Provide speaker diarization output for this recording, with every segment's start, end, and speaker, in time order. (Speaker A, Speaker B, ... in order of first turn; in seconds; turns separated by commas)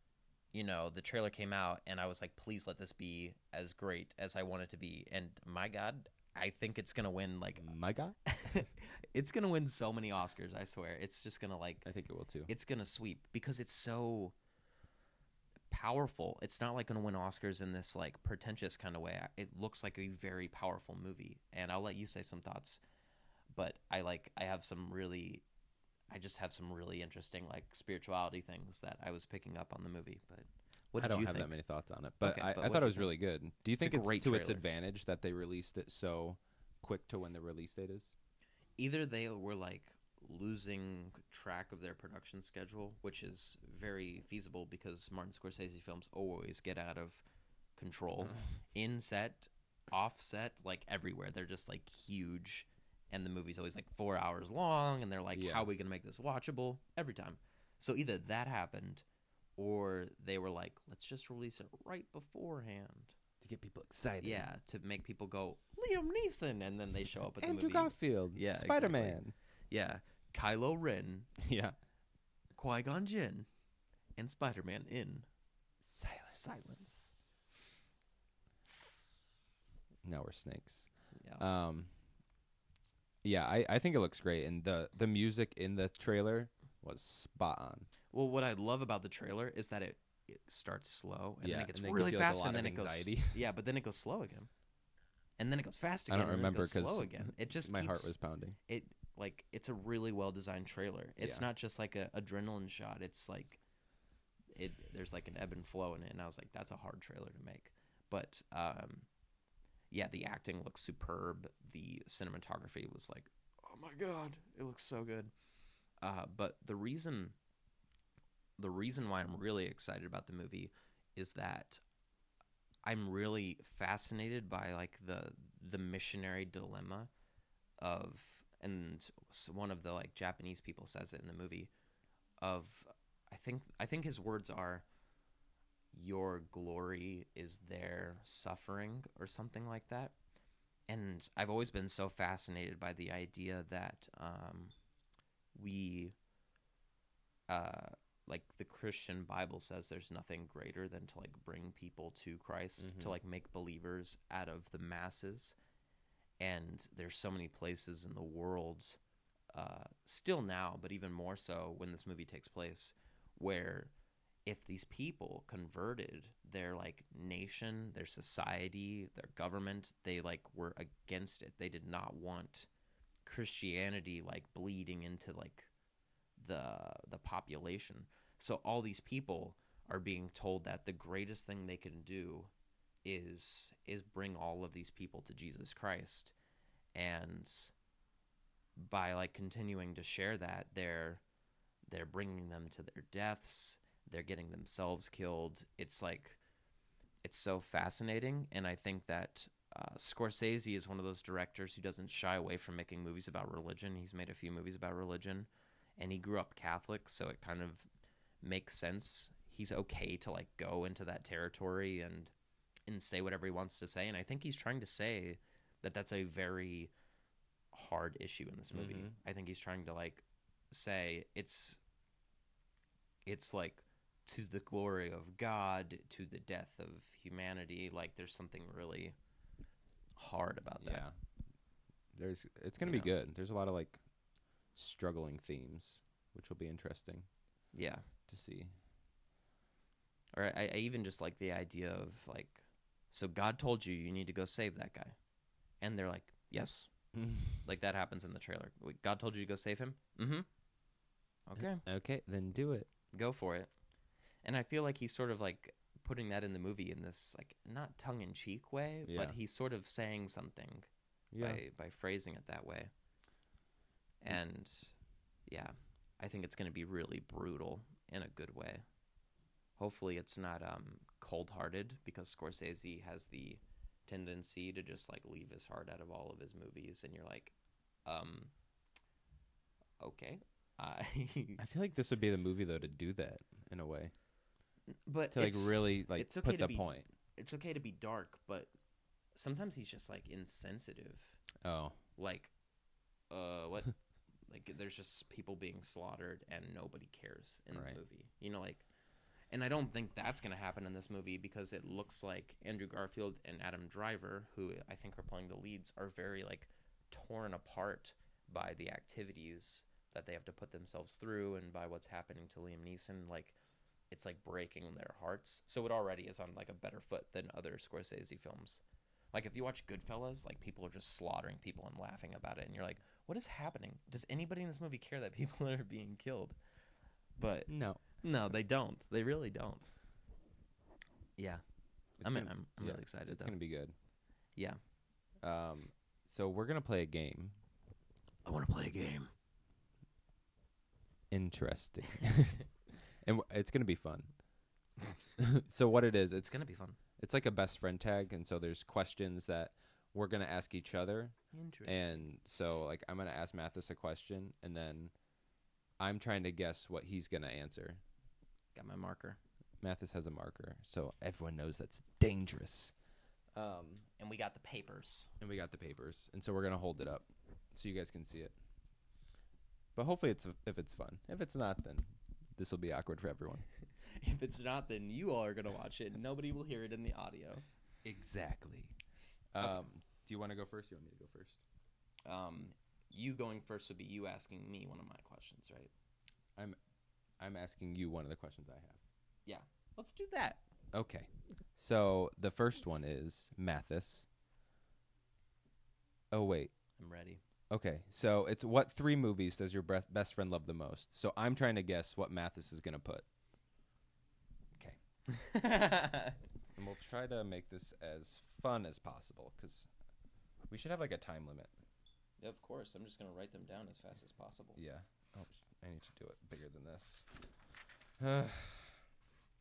Speaker A: 0.5-7.7, Speaker B: 7.6-8.6, Speaker A: 8.3-11.9, Speaker B: 11.8-12.5, Speaker A: 12.5-14.3, Speaker A: 15.7-22.8, Speaker A: 23.5-25.4, Speaker A: 26.1-31.5, Speaker B: 31.0-38.1, Speaker A: 32.2-33.1, Speaker A: 33.8-34.6, Speaker A: 38.8-47.2, Speaker A: 47.8-59.0, Speaker B: 55.3-55.7, Speaker A: 59.6-63.2, Speaker B: 63.4-64.5, Speaker A: 64.2-69.2, Speaker B: 67.4-69.3, Speaker A: 69.7-71.3, Speaker B: 71.4-71.8, Speaker A: 72.6-73.5, Speaker A: 74.2-75.3, Speaker B: 75.8-76.7, Speaker A: 76.3-77.2, Speaker A: 78.7-79.3, Speaker B: 80.0-81.9, Speaker B: 83.2-87.9, Speaker A: 88.1-94.5, Speaker B: 91.4-93.4, Speaker A: 95.4-98.1, Speaker B: 96.1-98.6, Speaker A: 98.7-103.6, Speaker A: 104.5-109.1, Speaker A: 109.9-115.3, Speaker A: 116.0-117.4, Speaker A: 118.6-121.8, Speaker A: 122.8-127.1, Speaker A: 127.8-131.7, Speaker A: 132.4-134.9, Speaker A: 135.9-140.2, Speaker A: 140.9-144.7, Speaker A: 145.6-146.1, Speaker A: 147.5-155.6, Speaker B: 152.8-153.2, Speaker A: 156.4-159.0, Speaker A: 159.5-163.9, Speaker A: 164.5-172.7, Speaker A: 173.3-175.7, Speaker A: 176.4-182.5, Speaker A: 183.1-186.3, Speaker A: 186.9-187.7, Speaker A: 188.8-191.2, Speaker A: 191.9-196.4, Speaker A: 197.2-207.9, Speaker A: 208.4-212.3, Speaker A: 212.9-216.9, Speaker A: 217.7-221.8, Speaker B: 218.7-219.1, Speaker A: 223.3-229.2, Speaker A: 230.2-231.1, Speaker B: 230.8-231.1, Speaker B: 232.1-234.0, Speaker A: 232.8-233.1, Speaker B: 234.8-237.3, Speaker A: 237.7-238.1, Speaker B: 238.3-238.7, Speaker A: 240.3-245.2, Speaker A: 245.8-246.9, Speaker B: 247.1-247.6, Speaker A: 247.6-250.5, Speaker A: 251.5-251.8, Speaker B: 251.6-252.9, Speaker A: 253.1-253.7, Speaker A: 254.4-262.9, Speaker B: 259.1-259.4, Speaker B: 261.3-261.6, Speaker A: 264.2-264.9, Speaker A: 265.5-268.9, Speaker A: 269.8-277.5, Speaker A: 278.1-278.5, Speaker A: 280.0-281.6, Speaker B: 281.6-284.1, Speaker A: 285.1-288.7, Speaker B: 285.3-287.1, Speaker A: 289.4-291.4, Speaker B: 291.6-292.0, Speaker A: 292.2-292.5, Speaker A: 293.3-293.9, Speaker A: 294.5-298.9, Speaker A: 299.5-313.6, Speaker A: 314.1-318.8, Speaker A: 319.3-326.6, Speaker A: 327.4-329.9, Speaker B: 327.7-328.0, Speaker A: 331.4-331.6, Speaker B: 332.2-333.9, Speaker A: 332.2-333.5, Speaker B: 335.4-337.6, Speaker A: 338.4-339.3, Speaker B: 341.3-342.7, Speaker B: 343.2-344.3, Speaker B: 345.4-346.6, Speaker A: 346.4-347.0, Speaker B: 347.2-355.1, Speaker A: 351.5-352.2, Speaker B: 356.0-358.0, Speaker A: 358.8-359.4, Speaker B: 359.8-362.9, Speaker B: 363.5-364.1, Speaker A: 364.2-365.3, Speaker B: 365.4-368.6, Speaker B: 370.0-373.6, Speaker A: 374.1-377.6, Speaker B: 378.0-378.9, Speaker B: 379.5-381.6, Speaker A: 382.2-385.9, Speaker B: 387.4-389.0, Speaker A: 389.5-390.6, Speaker B: 390.9-394.3, Speaker B: 396.3-396.7, Speaker A: 397.0-397.4, Speaker B: 397.7-403.3, Speaker A: 405.3-406.4, Speaker B: 406.8-409.9, Speaker B: 410.7-411.7, Speaker A: 412.4-414.8, Speaker B: 414.8-417.3, Speaker B: 418.2-419.0